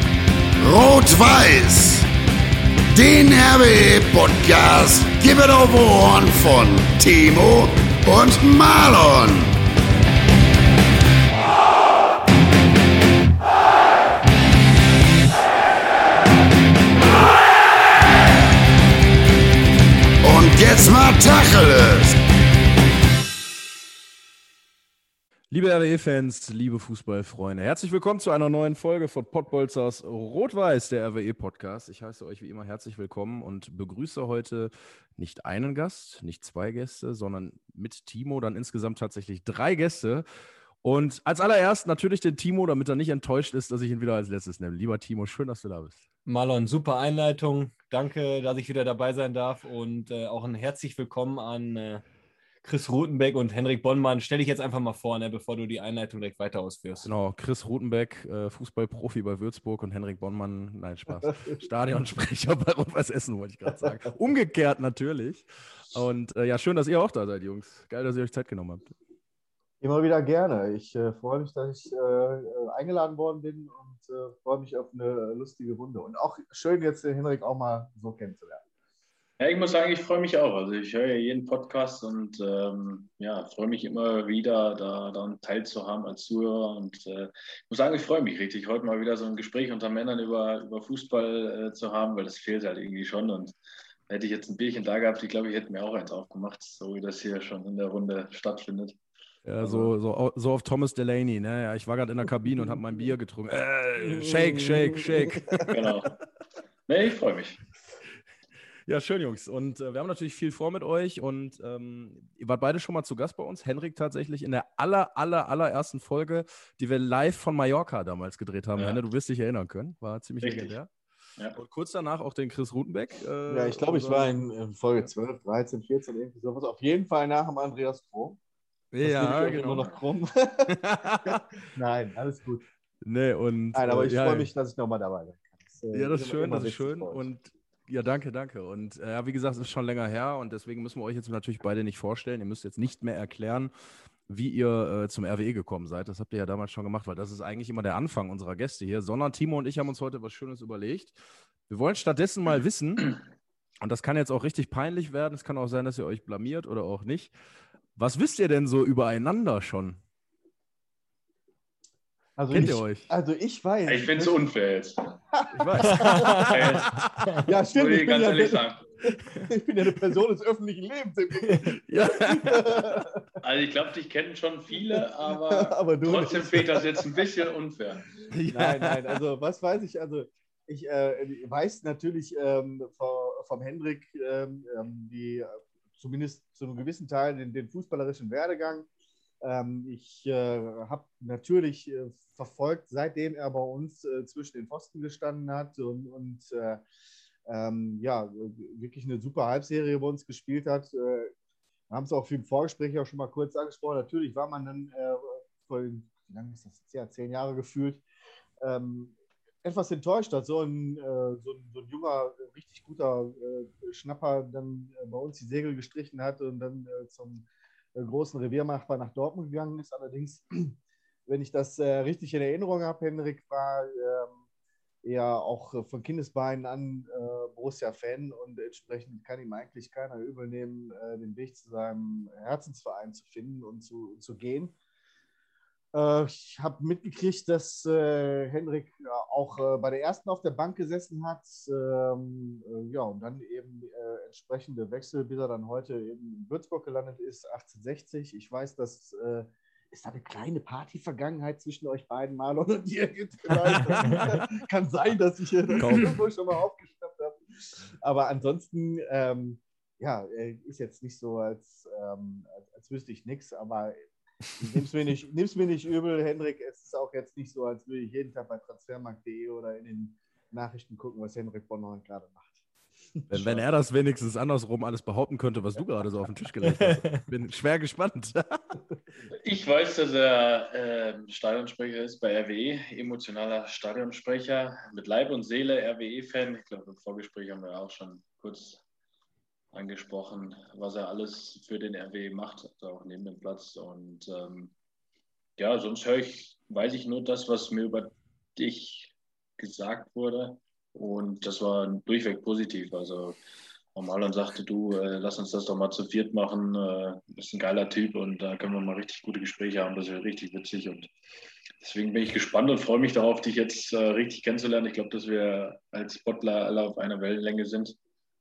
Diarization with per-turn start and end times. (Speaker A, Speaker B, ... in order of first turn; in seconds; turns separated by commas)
Speaker A: 0.6-2.1, Speaker A: 2.9-9.5, Speaker A: 20.2-22.2, Speaker B: 25.5-40.2, Speaker B: 40.8-46.0, Speaker C: 46.3-52.0, Speaker C: 52.6-57.1, Speaker B: 57.0-68.9, Speaker D: 61.3-61.5, Speaker D: 69.8-78.6, Speaker E: 79.4-93.5, Speaker E: 94.1-99.0, Speaker B: 99.5-106.1, Speaker E: 99.6-99.9, Speaker D: 104.0-105.7, Speaker E: 105.7-106.2, Speaker E: 106.9-107.6, Speaker B: 108.9-120.9, Speaker E: 120.4-120.8, Speaker B: 121.5-124.4, Speaker D: 123.5-128.4, Speaker B: 128.9-129.9, Speaker D: 129.0-132.7, Speaker B: 130.7-131.4, Speaker B: 133.0-134.5, Speaker D: 133.7-137.3, Speaker B: 135.9-143.7, Speaker B: 144.3-151.1, Speaker B: 151.7-153.1, Speaker B: 153.8-157.3, Speaker B: 158.0-160.0, Speaker D: 162.4-164.5, Speaker B: 162.5-163.1, Speaker E: 163.9-165.2, Speaker D: 165.4-166.5, Speaker B: 165.5-167.2, Speaker C: 165.8-167.4, Speaker E: 166.5-166.9, Speaker D: 167.4-173.2, Speaker E: 167.7-168.8, Speaker B: 171.8-173.0, Speaker E: 173.4-178.1, Speaker D: 174.9-177.3, Speaker B: 178.3-179.2, Speaker D: 178.5-188.9, Speaker D: 189.4-196.8, Speaker D: 197.5-201.3, Speaker D: 201.9-208.0, Speaker D: 208.6-224.4, Speaker D: 225.0-234.8, Speaker D: 235.9-264.0, Speaker B: 253.6-254.4, Speaker B: 255.8-256.2, Speaker D: 264.6-272.6, Speaker D: 273.1-273.6, Speaker B: 273.3-278.8, Speaker C: 276.6-277.2, Speaker E: 279.3-288.8, Speaker E: 289.7-294.7, Speaker E: 295.6-303.4, Speaker E: 303.9-311.1, Speaker E: 311.8-318.0